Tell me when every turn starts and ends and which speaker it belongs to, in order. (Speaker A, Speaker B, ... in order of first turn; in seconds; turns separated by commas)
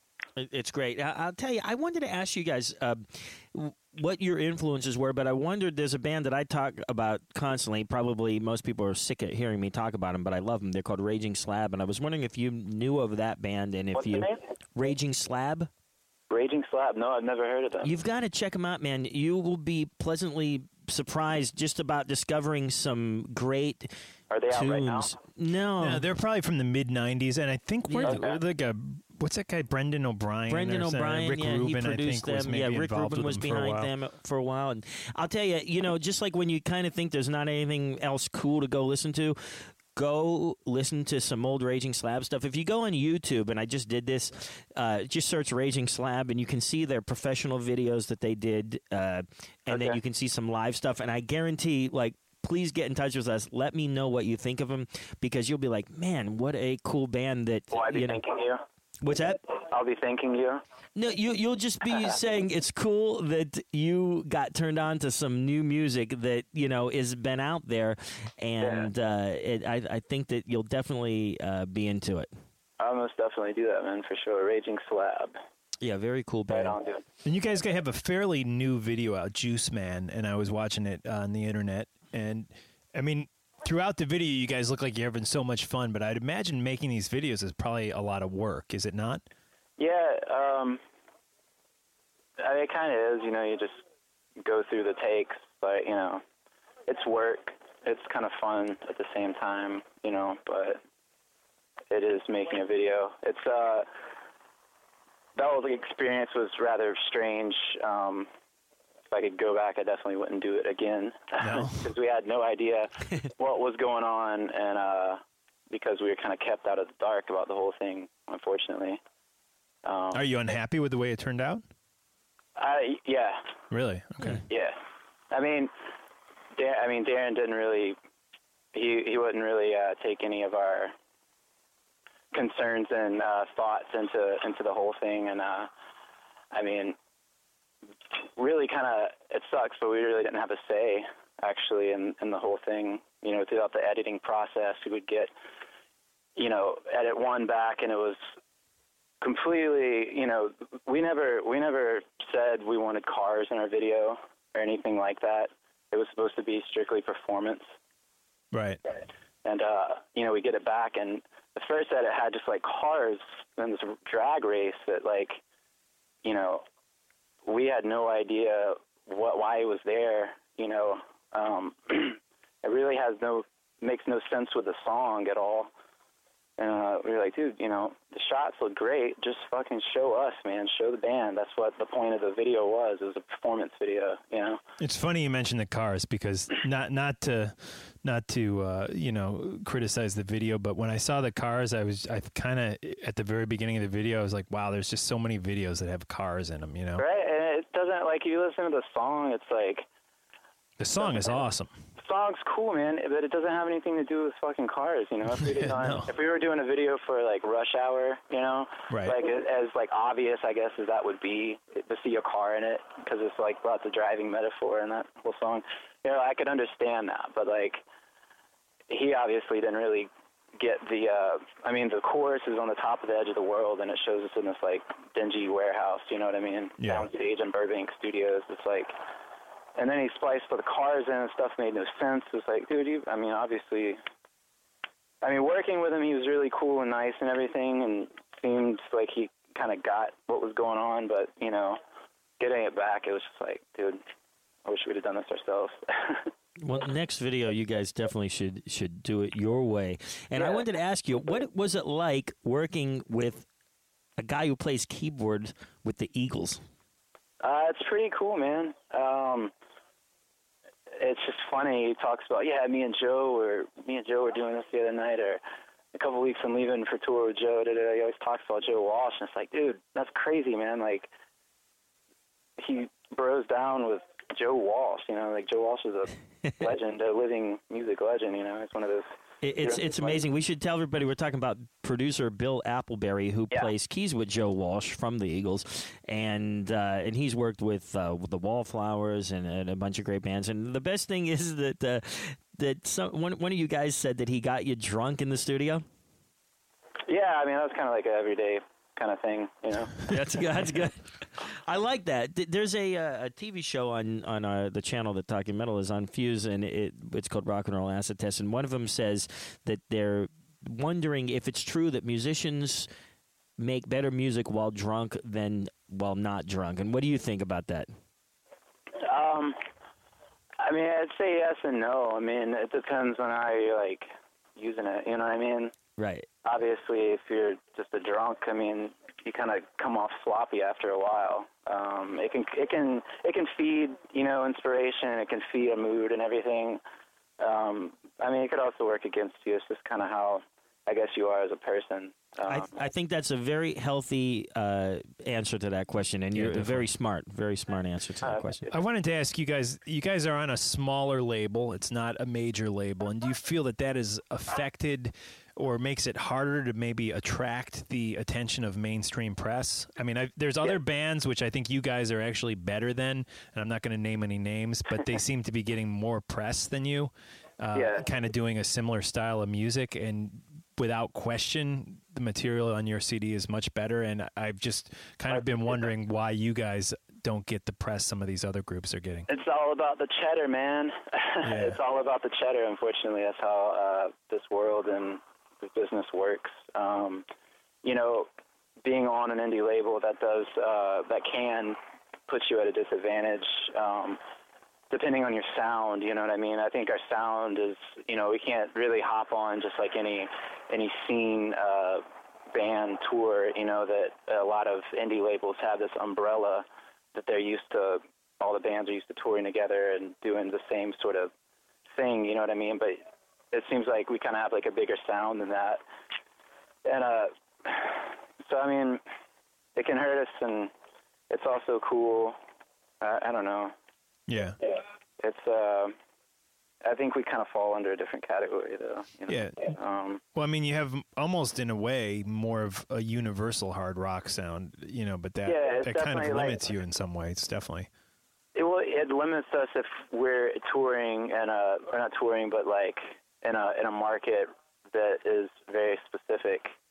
Speaker A: 0.4-15.7, Speaker B: 13.9-14.4, Speaker B: 16.3-17.9, Speaker A: 17.8-23.9, Speaker B: 24.3-25.1, Speaker A: 24.5-26.1, Speaker C: 25.8-33.9, Speaker A: 27.9-28.3, Speaker B: 28.1-28.4, Speaker A: 30.5-58.2, Speaker B: 49.7-50.0, Speaker B: 57.7-58.6, Speaker A: 59.0-59.4, Speaker B: 59.6-60.6, Speaker A: 61.0-72.3, Speaker B: 68.6-68.9, Speaker B: 72.8-75.3, Speaker A: 75.8-76.8, Speaker B: 76.5-77.0, Speaker C: 77.2-89.2, Speaker B: 89.8-90.8, Speaker B: 92.4-93.8, Speaker B: 94.4-96.2, Speaker B: 96.9-100.8, Speaker B: 101.9-103.9, Speaker B: 105.3-108.3, Speaker B: 109.1-119.0, Speaker C: 111.4-111.9, Speaker B: 119.8-120.2, Speaker C: 120.1-121.6, Speaker B: 122.6-123.4, Speaker C: 123.7-124.4, Speaker B: 124.5-124.8, Speaker B: 125.3-125.7, Speaker B: 126.5-128.0, Speaker B: 128.7-130.9, Speaker B: 132.3-135.7, Speaker B: 136.5-136.9, Speaker B: 138.4-145.3, Speaker B: 146.3-148.2, Speaker B: 149.2-157.7, Speaker C: 158.5-158.8, Speaker B: 159.4-165.4, Speaker B: 166.2-166.6, Speaker B: 167.4-175.7, Speaker B: 176.6-184.6, Speaker C: 184.8-197.0, Speaker B: 197.0-199.8, Speaker C: 200.8-201.7, Speaker B: 201.0-201.4, Speaker B: 202.0-217.8, Speaker C: 205.5-206.1, Speaker C: 208.9-209.2, Speaker B: 218.9-228.9, Speaker C: 226.8-227.1, Speaker B: 229.8-234.0, Speaker B: 235.2-241.8, Speaker B: 242.4-244.0, Speaker B: 244.6-246.3, Speaker A: 246.6-253.5, Speaker B: 250.3-250.6, Speaker A: 254.2-256.6, Speaker B: 257.4-259.5, Speaker B: 261.0-265.4, Speaker B: 265.9-271.1, Speaker B: 272.6-279.1, Speaker A: 279.4-295.8, Speaker B: 279.6-280.2, Speaker B: 297.1-299.9, Speaker A: 300.1-312.9, Speaker A: 313.6-317.9, Speaker B: 319.1-319.6, Speaker B: 320.6-325.7, Speaker A: 326.0-326.3, Speaker B: 326.4-336.8, Speaker B: 337.4-342.7, Speaker A: 342.4-348.6, Speaker C: 346.3-346.8, Speaker B: 348.2-348.8, Speaker C: 348.7-379.3, Speaker B: 367.7-368.0, Speaker B: 375.3-375.9, Speaker B: 379.3-387.2, Speaker C: 381.4-381.8, Speaker B: 387.8-388.3, Speaker B: 388.8-394.2, Speaker B: 394.9-411.3, Speaker B: 411.9-415.8, Speaker B: 416.8-419.0, Speaker B: 419.8-420.7, Speaker B: 421.3-422.4, Speaker B: 423.0-423.7, Speaker C: 424.3-424.6, Speaker B: 425.2-425.9, Speaker B: 426.8-430.2, Speaker C: 429.3-429.8, Speaker C: 430.3-437.9, Speaker B: 435.4-436.6, Speaker B: 438.5-446.7